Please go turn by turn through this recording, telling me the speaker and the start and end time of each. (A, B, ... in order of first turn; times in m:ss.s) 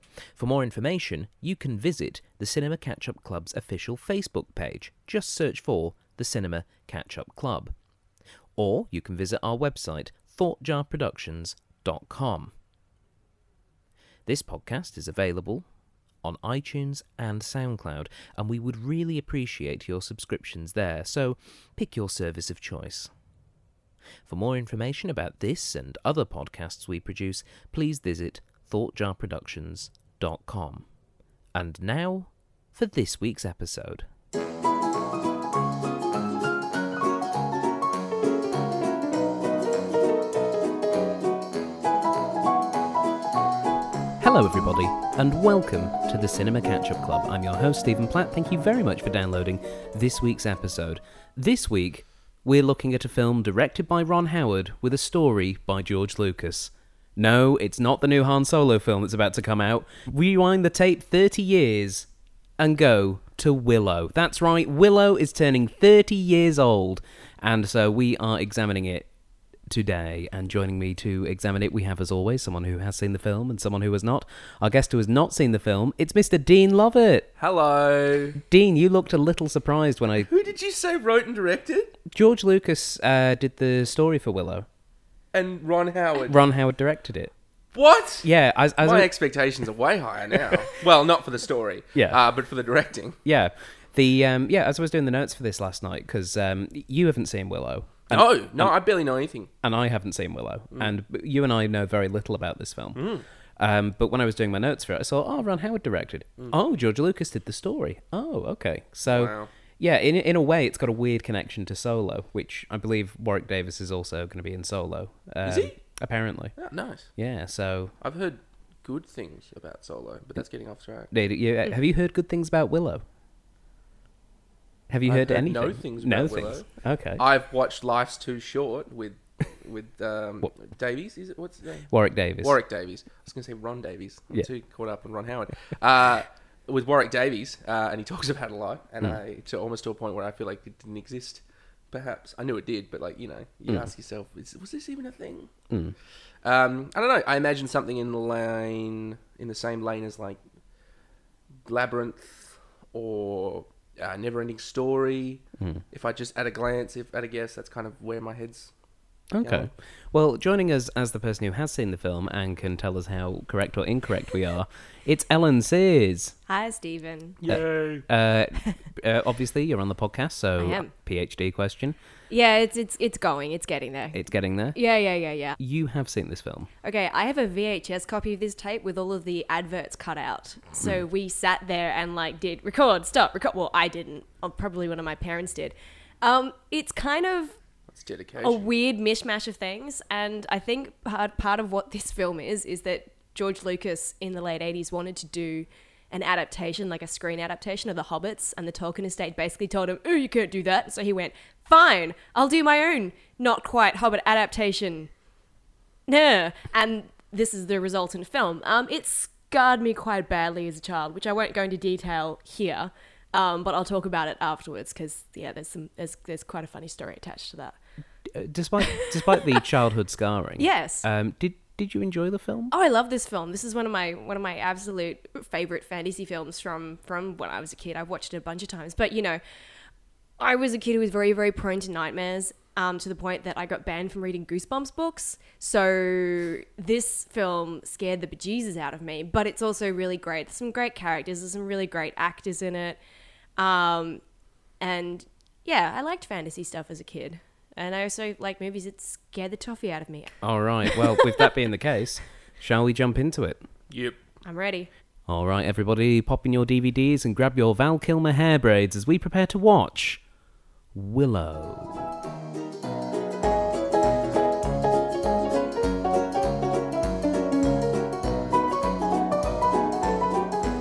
0:00.3-0:07.7 A
0:08.6-0:12.5 A
0:14.3-0:15.7 A
0:16.2-0:23.1 A
0:24.3-0:30.9 A
0:31.5-0:34.0 A
0:44.2-1:02.1 A
1:02.6-1:09.1 A
1:09.7-1:17.3 A
1:17.4-1:18.4 B
1:18.4-1:20.3 A
1:20.3-1:22.0 B
1:22.1-1:24.6 A
1:25.3-1:26.4 B
1:26.3-1:27.3 A
1:27.7-1:28.3 B
1:28.2-1:29.1 A
1:28.8-1:33.2 B
1:31.9-1:32.2 A
1:33.2-1:38.8 A
1:38.1-1:39.5 B
1:39.6-1:43.1 A
1:42.9-1:43.2 B
1:43.6-1:56.6 A
1:49.1-1:49.5 B
1:55.4-1:55.8 B
1:56.6-1:57.1 B
1:57.2-1:57.9 A
1:58.0-2:01.1 B
2:01.1-2:03.0 A
2:04.9-2:07.2 A
2:05.0-2:06.7 B
2:07.2-2:11.9 B
2:11.9-2:12.6 A
2:12.4-2:25.5 B
2:25.7-2:26.0 A
2:26.4-2:30.4 B
2:31.7-2:38.7 B
2:39.3-2:46.4 A
2:39.4-2:39.7 B
2:46.5-2:47.4 C
2:47.4-2:48.1 B
2:47.5-2:52.0 A
2:50.6-2:50.9 C
2:52.3-2:54.2 C
2:54.1-2:54.8 A
2:54.7-2:55.6 C
2:55.6-2:56.7 A
2:56.8-3:07.6 C
3:07.9-3:08.6 B
3:08.4-3:25.1 C
3:26.1-3:37.8 C
3:38.3-3:42.7 A
3:38.8-3:39.6 C
3:40.6-3:41.0 C
3:42.7-3:49.4 C
3:50.4-4:03.0 C
4:03.6-4:04.2 C
4:04.8-4:11.4 C
4:10.4-4:13.6 A
4:13.9-4:14.2 B
4:14.4-4:14.9 C
4:15.3-4:20.2 A
4:20.9-4:22.1 A